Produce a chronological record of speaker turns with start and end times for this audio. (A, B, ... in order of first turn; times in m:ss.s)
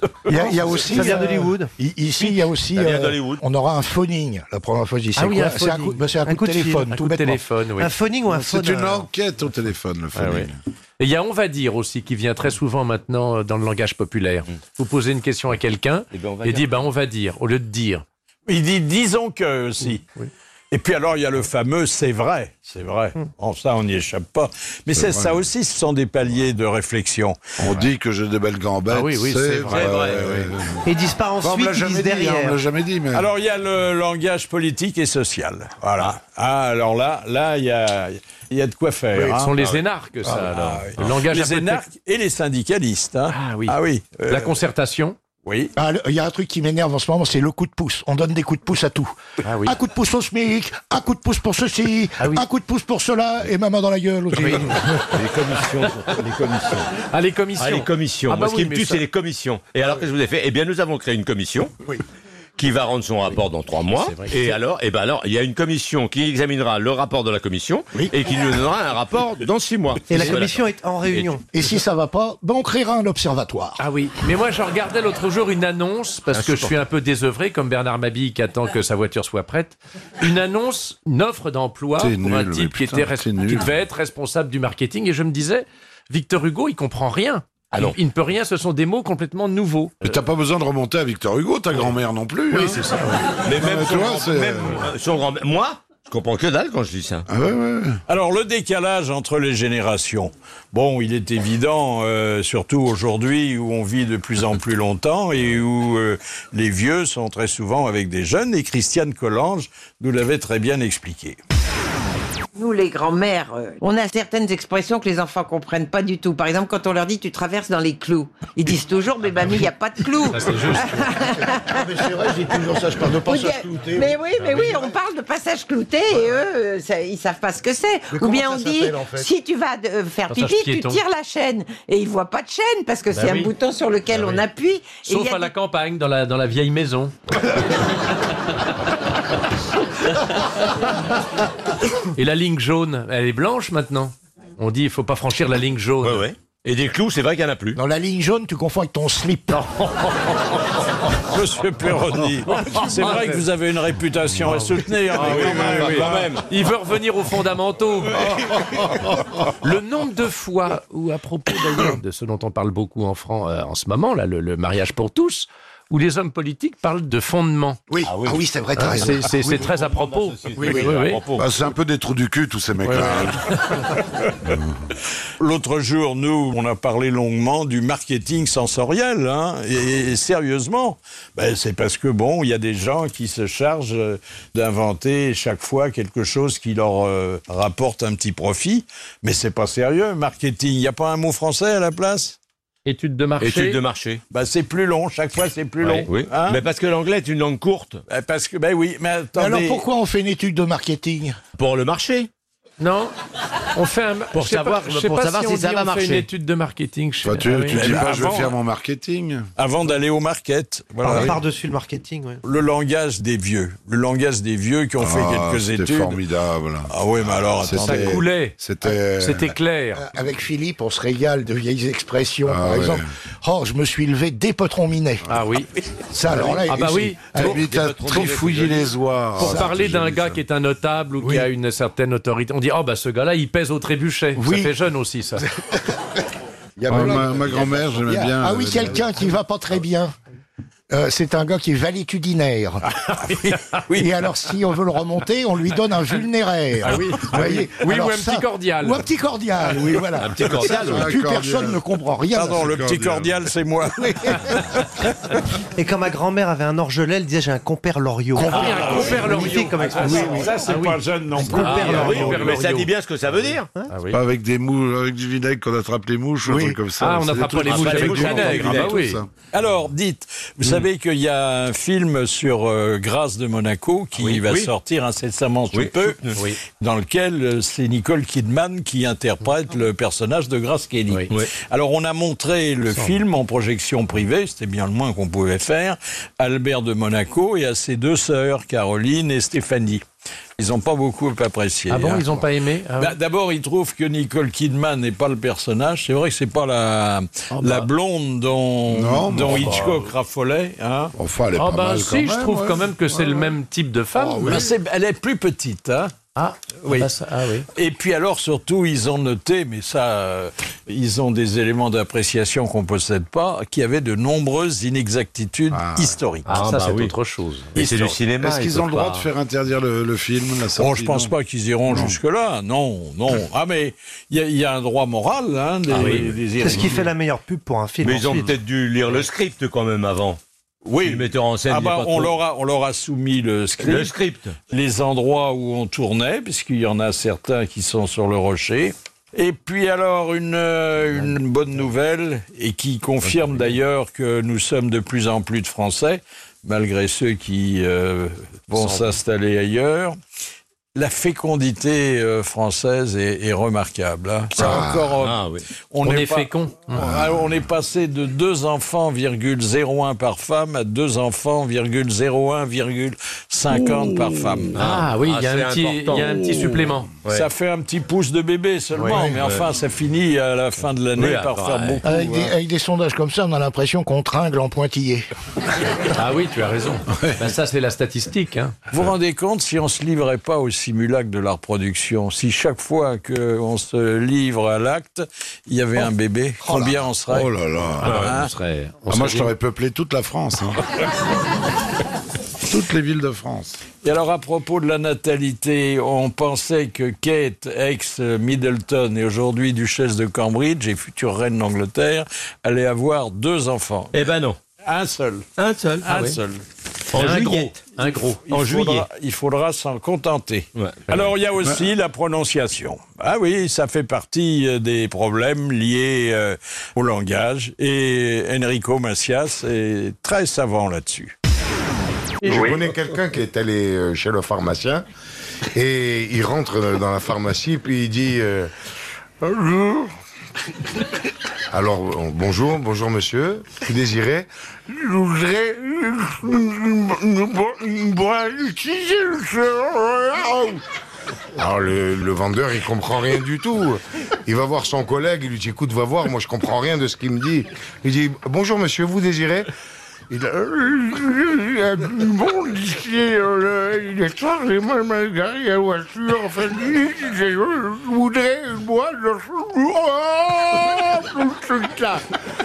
0:00.3-0:07.4 A
0:00.4-0:01.7 B
0:02.2-0:03.4 C
0:05.2-0:07.0 B
0:06.9-0:07.9 D
0:07.8-0:09.1 B
0:08.3-0:10.6 E
0:10.1-0:18.0 D
0:16.1-0:16.8 C
0:18.5-0:20.0 F
0:20.7-0:27.4 F
0:24.9-0:25.4 E
0:27.6-0:30.8 E
0:28.9-0:30.5 D
0:29.7-0:30.2 C
0:30.8-0:32.6 B
0:31.4-0:33.3 E
0:33.1-0:39.5 F
0:39.1-0:41.8 D
0:39.6-0:39.8 C
0:40.5-0:44.5 F
0:43.3-0:43.7 D
0:44.3-0:45.2 D
0:45.4-0:45.7 F
0:45.8-0:54.8 A
0:49.4-0:49.8 D
0:52.2-0:52.4 D
0:54.3-0:55.3 D
0:55.1-0:56.9 C
0:57.1-0:59.0 D
0:57.6-1:01.7 C
1:02.6-1:11.3 C
1:03.9-1:04.6 D
1:10.1-1:11.4 B
1:11.5-1:13.8 A
1:13.8-1:30.1 D
1:16.3-1:16.7 C
1:22.0-1:23.7 E
1:27.7-1:28.0 C
1:30.0-1:32.8 E
1:32.5-1:33.3 D
1:33.4-1:37.2 C
1:33.5-1:34.8 E
1:37.3-1:38.0 E
1:38.1-1:51.4 F
1:52.6-2:02.6 G
2:00.3-2:01.0 D
2:01.2-2:04.8 A
2:03.1-2:15.5 G
2:08.1-2:09.3 A
2:10.3-2:11.0 D
2:13.2-2:13.4 D
2:15.0-2:17.1 D
2:22.1-2:26.3 D
2:26.0-2:27.8 C
2:27.8-2:29.6 A
2:29.6-2:30.2 D
2:31.3-2:36.1 F
2:32.4-2:33.5 D
2:34.4-2:38.6 D
2:35.1-2:36.5 C
2:38.3-2:39.1 E
2:39.5-2:47.8 D
2:47.9-2:49.6 A
2:48.0-2:48.4 C
2:48.8-2:51.2 D
2:49.5-2:51.5 C
2:51.4-2:53.6 E
2:52.8-2:53.3 D
2:55.4-3:12.4 F
3:12.8-3:13.8 D
3:13.4-3:14.2 C
3:14.3-3:16.6 F
3:16.0-3:18.0 C
3:18.1-3:19.8 F
3:19.4-3:21.4 A
3:21.6-3:22.3 C
3:22.8-3:23.1 D
3:23.7-3:28.2 D
3:24.3-3:26.3 C
3:27.2-3:29.4 E
3:27.7-3:28.6 F
3:29.6-3:31.4 F
3:31.0-3:32.4 B
3:32.4-3:36.2 F
3:35.0-3:39.5 E
3:36.9-3:38.1 F
3:37.8-3:40.0 D
3:40.0-3:45.2 A
3:42.5-3:43.1 E
3:45.3-3:45.7 D
3:46.1-3:47.6 A
3:46.3-3:46.8 E
3:46.7-3:47.5 D
3:47.3-3:50.4 E
3:47.5-3:48.9 C
3:49.4-3:55.4 D
3:54.4-3:54.7 A
3:56.8-4:00.1 A
3:56.9-3:59.1 E
4:00.9-4:02.8 A
4:03.5-4:03.7 D
4:03.9-4:12.6 A
4:06.8-4:09.1 D
4:10.2-4:11.1 C
4:10.6-4:11.8 E
4:12.3-4:14.4 F
4:12.4-4:13.4 E
4:14.0-4:14.5 A
4:15.8-4:20.7 B
4:18.4-4:18.7 A
4:18.4-4:22.9 D
4:18.5-4:22.4 F
4:21.4-4:22.7 B
4:21.7-4:23.7 C
4:23.9-4:24.2 D
4:24.1-4:29.3 E
4:26.4-4:26.8 A
4:27.0-4:29.2 D
4:27.6-4:29.0 C
4:29.5-4:50.0 F
4:34.4-4:34.7 C
4:35.7-4:36.4 C
4:36.4-4:36.6 D
4:42.9-4:43.2 D
4:50.6-4:52.3 F
4:51.9-4:53.2 D
4:53.0-5:01.1 F
4:57.5-4:57.9 D
4:58.9-4:59.9 E
5:01.2-5:03.6 E
5:01.6-5:04.7 D
5:04.1-5:04.7 E
5:04.4-5:06.1 F
5:06.4-5:07.7 D
5:06.8-5:07.1 F
5:07.7-5:16.7 F
5:15.7-5:16.1 E
5:16.4-5:17.1 C
5:16.5-5:18.2 D
5:17.7-5:19.3 C
5:18.4-5:21.3 E
5:20.8-5:27.1 F
5:21.9-5:22.2 E
5:25.9-5:26.9 D
5:26.6-5:28.6 B
5:28.0-5:30.4 C
5:30.8-5:34.1 F
5:31.0-5:32.3 C
5:33.8-5:34.6 C
5:34.7-5:50.2 F
5:48.8-5:49.2 D
5:50.9-6:04.8 F
5:55.2-5:55.6 C
5:56.0-5:57.1 D
5:57.0-5:57.4 E
6:03.7-6:04.6 E
6:04.7-6:06.4 C
6:04.8-6:07.1 D
6:07.3-6:12.5 F
6:08.9-6:09.3 D
6:09.3-6:09.6 C
6:11.2-6:12.0 C
6:12.0-6:15.3 A
6:16.1-6:18.8 D
6:18.9-6:27.5 F
6:26.7-6:28.2 E
6:28.0-6:28.3 C
6:28.0-6:28.5 F
6:28.1-6:29.5 D
6:29.1-6:30.8 E
6:32.6-6:33.8 E
6:34.0-6:44.2 F
6:44.1-6:44.6 C
6:44.8-6:45.5 F
6:45.6-6:46.1 C
6:46.0-6:46.4 D
6:46.1-6:46.6 F
6:47.1-6:47.8 C
6:47.1-6:48.4 D
6:48.5-6:49.1 C
6:48.5-7:01.3 F
6:50.8-6:51.3 C
7:02.4-7:05.0 H
7:05.7-7:08.7 H
7:09.4-7:10.1 H
7:11.7-7:20.8 H
7:21.6-7:29.7 H
7:30.3-7:42.3 H